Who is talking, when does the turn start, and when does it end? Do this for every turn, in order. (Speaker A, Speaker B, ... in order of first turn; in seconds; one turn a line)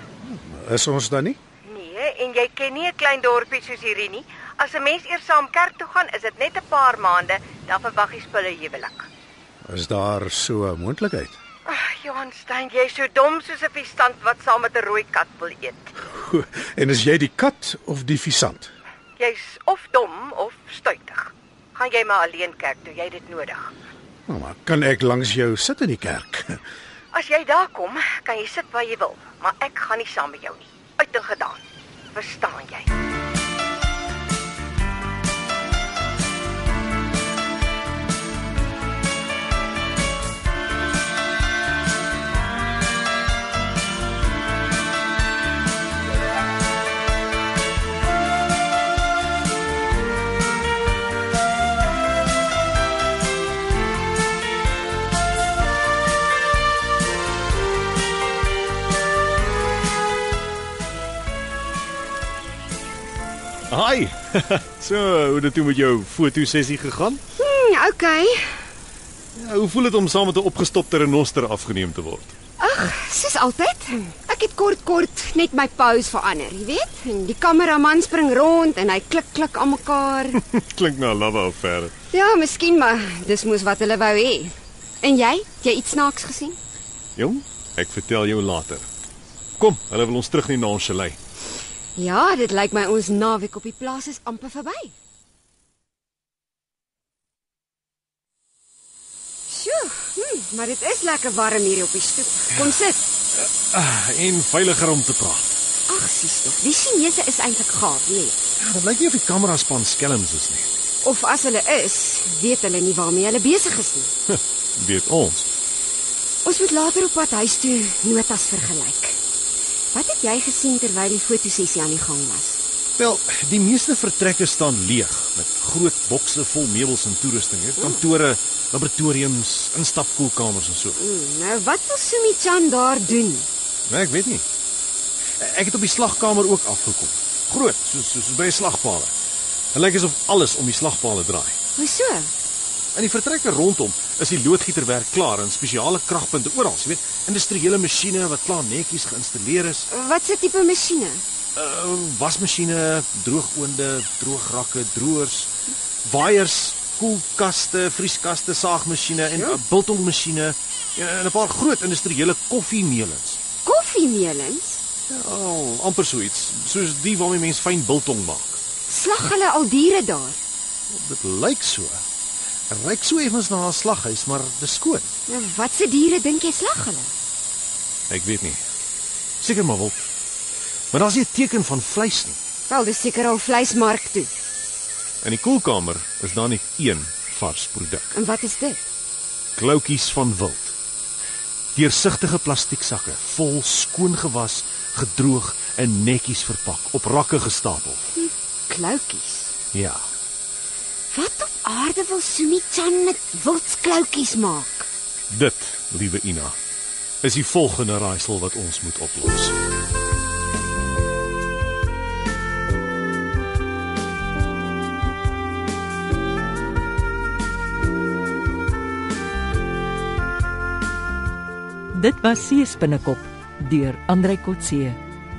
Speaker A: 0.2-1.4
Speaker B: 1.6-9.1
Speaker A: 9.6-11.4
Speaker B: 11.7-15.9
Speaker A: 16.1-18.7
Speaker B: 19.2-23.7
Speaker A: 24.3-26.6
Speaker B: 27.1-31.6
Speaker B: 32.1-32.9
Speaker C: 63.7-67.2
Speaker D: 67.4-68.5
Speaker C: 69.3-72.3
Speaker D: 72.6-80.4
Speaker C: 80.3-81.9
Speaker D: 82.1-86.6
Speaker C: 87.2-88.9
Speaker C: 89.6-91.2
Speaker D: 92.0-94.9
Speaker D: 99.5-103.0
Speaker C: 103.4-105.5
Speaker D: 105.9-108.4
Speaker C: 108.6-110.7
Speaker D: 111.0-114.1
Speaker C: 114.3-115.5
Speaker D: 116.4-119.2
Speaker D: 119.9-122.6
Speaker C: 123.0-131.0
Speaker D: 131.0-133.5
Speaker C: 133.9-134.4
Speaker C: 135.4-139.1
Speaker C: 139.7-141.6
Speaker D: 141.8-142.3
Speaker C: 142.9-149.9
Speaker D: 149.9-151.2
Speaker C: 151.6-155.5
Speaker C: 156.0-163.4
Speaker D: 163.6-164.8
Speaker C: 165.1-168.6
Speaker D: 168.9-170.4
Speaker C: 170.9-172.0
Speaker C: 172.7-175.1
Speaker D: 175.3-177.1
Speaker C: 178.1-178.6
Speaker C: 179.4-180.1
Speaker C: 180.9-182.4
Speaker D: 182.7-184.3
Speaker C: 185.2-188.1
Speaker D: 188.1-188.8
Speaker C: 189.6-190.8
Speaker C: 191.7-198.0
Speaker D: 198.2-199.5
Speaker C: 199.7-200.1
Speaker D: 201.1-204.9
Speaker C: 205.3-206.6
Speaker C: 207.2-209.5
Speaker E: 221.9-225.0